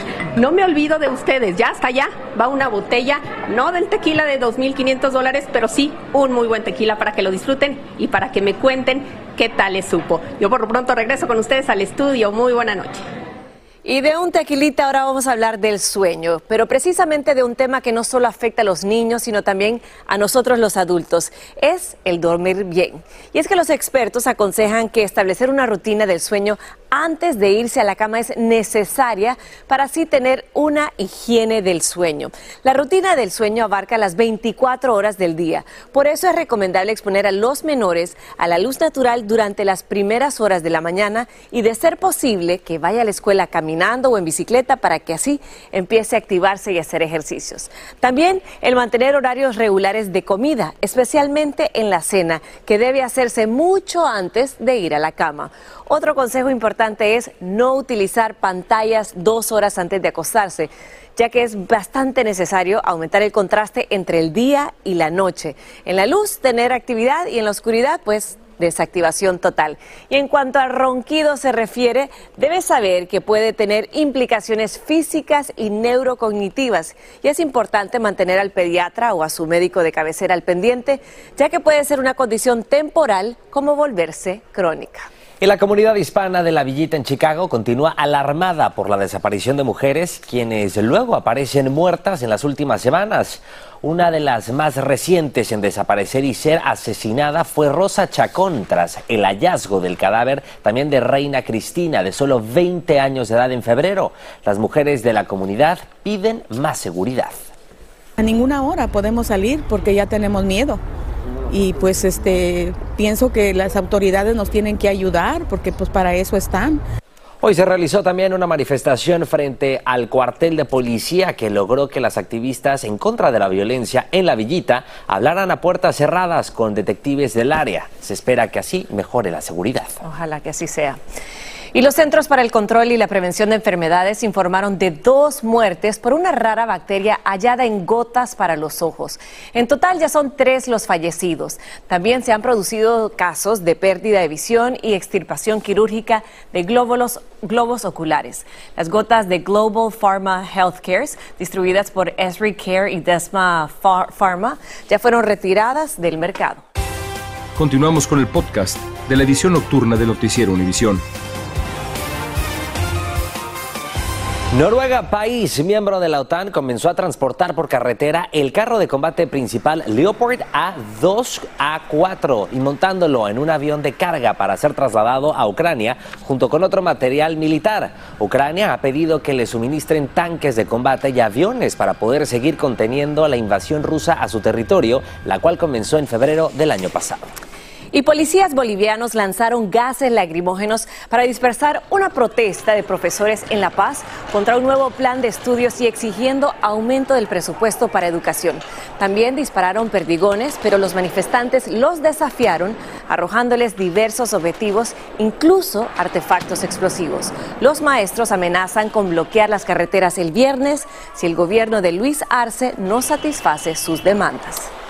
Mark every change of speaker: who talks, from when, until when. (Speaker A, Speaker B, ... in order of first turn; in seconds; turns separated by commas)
Speaker A: 0.4-13.0, Speaker B: 13.8-85.1, Speaker C: 85.4-107.4, Speaker D: 108.2-110.8, Speaker D: 111.5-116.8, Speaker C: 117.4-129.9, Speaker B: 130.0-131.0, Speaker B: 131.7-156.6, Speaker E: 157.6-161.0, Speaker C: 164.5-187.3, Speaker B: 187.9-214.7